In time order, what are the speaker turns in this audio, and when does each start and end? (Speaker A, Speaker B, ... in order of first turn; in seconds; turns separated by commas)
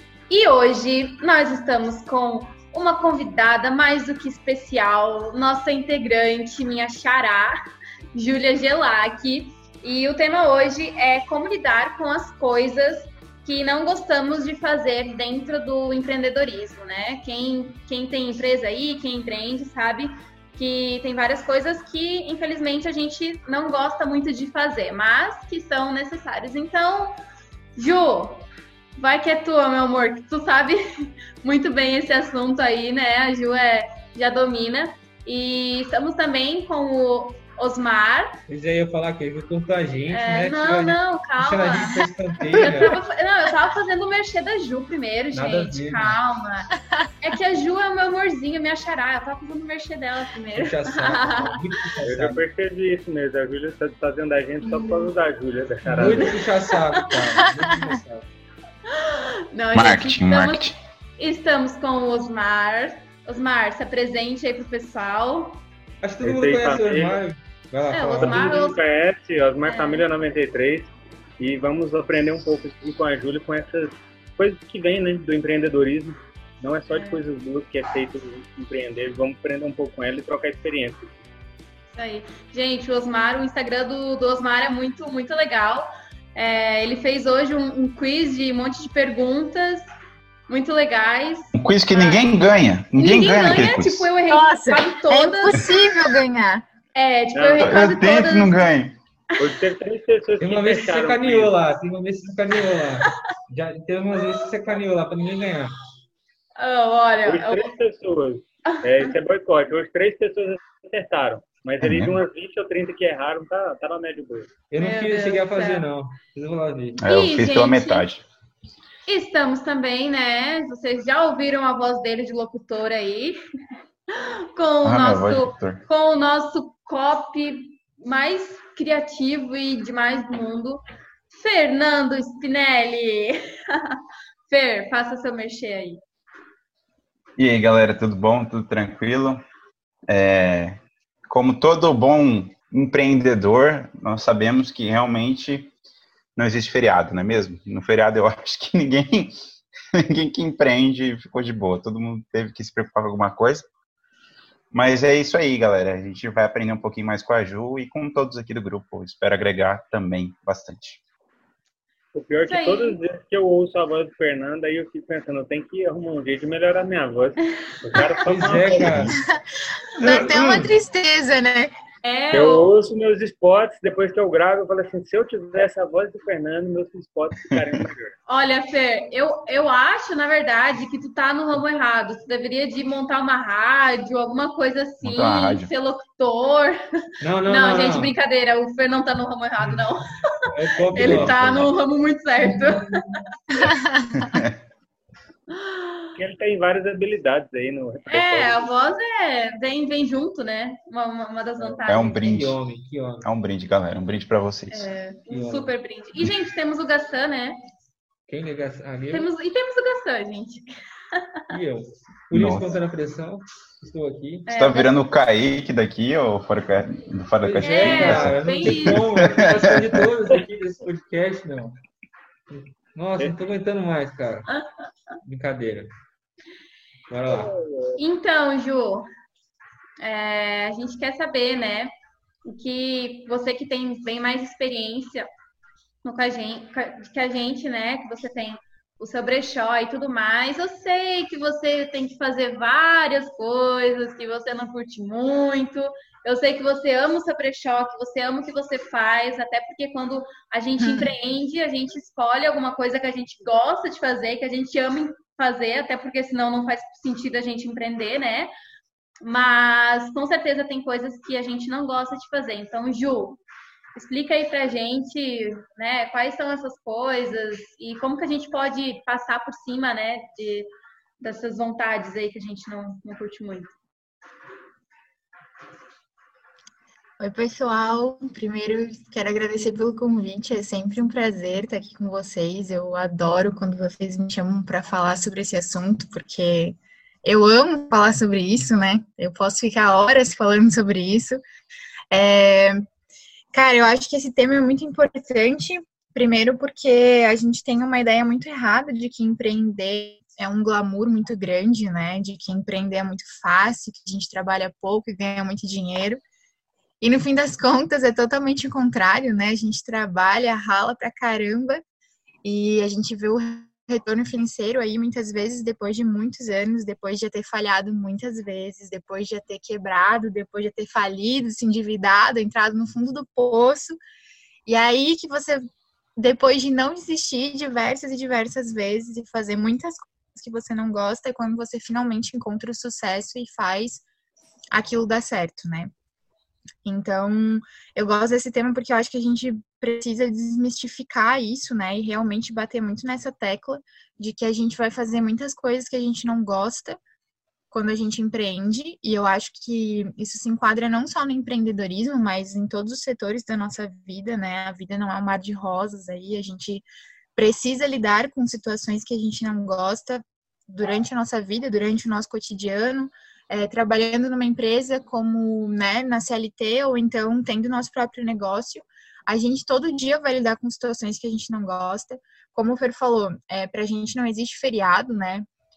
Speaker A: 0.3-7.5, Speaker A: 8.1-27.1, Speaker A: 27.8-28.5, Speaker A: 29.0-38.4, Speaker B: 38.5-43.0, Speaker A: 40.1-51.6, Speaker B: 45.3-46.2, Speaker B: 50.5-52.4, Speaker C: 52.0-56.4, Speaker A: 54.6-55.1, Speaker B: 55.9-58.3, Speaker A: 56.0-57.1, Speaker D: 57.4-57.8, Speaker A: 58.9-65.6, Speaker E: 59.7-60.8, Speaker B: 66.0-68.7, Speaker C: 66.2-67.2, Speaker A: 67.9-68.8, Speaker C: 68.2-81.1, Speaker A: 69.7-70.0, Speaker A: 76.9-77.2, Speaker A: 81.9-89.8, Speaker A: 90.5-92.4, Speaker E: 91.6-94.1, Speaker A: 93.0-95.7, Speaker D: 94.3-96.7, Speaker A: 96.9-98.7, Speaker C: 97.3-97.8, Speaker E: 97.6-99.0, Speaker C: 99.4-101.5, Speaker B: 100.4-105.8, Speaker A: 106.6-107.7, Speaker C: 107.2-114.5, Speaker A: 108.7-109.1, Speaker E: 111.8-112.2, Speaker B: 114.7-117.0, Speaker A: 114.8-115.9, Speaker E: 117.0-118.2, Speaker A: 117.0-118.1, Speaker A: 119.1-123.4, Speaker A: 124.1-130.8, Speaker E: 124.8-125.8, Speaker A: 131.3-134.0, Speaker A: 134.5-136.0, Speaker E: 137.4-139.4, Speaker E: 140.1-145.7, Speaker E: 146.4-149.4, Speaker E: 149.9-153.7, Speaker E: 154.7-161.0, Speaker C: 162.1-169.0, Speaker A: 162.5-163.0, Speaker B: 168.2-169.2, Speaker D: 168.7-171.7, Speaker B: 170.0-170.7, Speaker A: 172.0-172.7, Speaker C: 172.3-178.2, Speaker A: 178.3-186.8, Speaker E: 185.0-185.7, Speaker B: 187.2-188.1, Speaker A: 187.4-193.2, Speaker B: 190.5-191.4, Speaker E: 190.9-191.7, Speaker E: 193.7-194.5, Speaker D: 193.7-194.4, Speaker A: 195.5-196.1, Speaker C: 196.2-198.6, Speaker A: 198.1-202.5, Speaker E: 201.8-202.6, Speaker B: 202.1-203.3, Speaker E: 203.2-204.9, Speaker A: 204.7-207.6, Speaker B: 205.3-205.7, Speaker B: 208.3-209.3, Speaker A: 209.1-211.4, Speaker B: 211.5-214.5, Speaker E: 212.3-212.8, Speaker A: 214.5-215.0, Speaker E: 214.5-220.1, Speaker B: 217.4-221.8, Speaker A: 217.6-219.0, Speaker B: 222.5-224.5, Speaker B: 225.2-225.9, Speaker B: 227.1-227.5, Speaker C: 227.3-228.0, Speaker A: 228.0-229.1, Speaker A: 230.0-231.9, Speaker A: 232.5-235.3, Speaker A: 236.0-258.5, Speaker D: 250.8-251.1, Speaker A: 259.2-263.4, Speaker A: 263.9-270.7, Speaker A: 271.2-273.7, Speaker D: 277.2-291.4, Speaker D: 292.1-292.8, Speaker D: 293.5-306.2, Speaker D: 307.0-311.8, Speaker D: 312.4-324.0, Speaker D: 324.7-325.6, Speaker D: 326.2-334.0, Speaker D: 334.7-335.9, Speaker D: 336.9-347.0, Speaker D: 347.7-375.5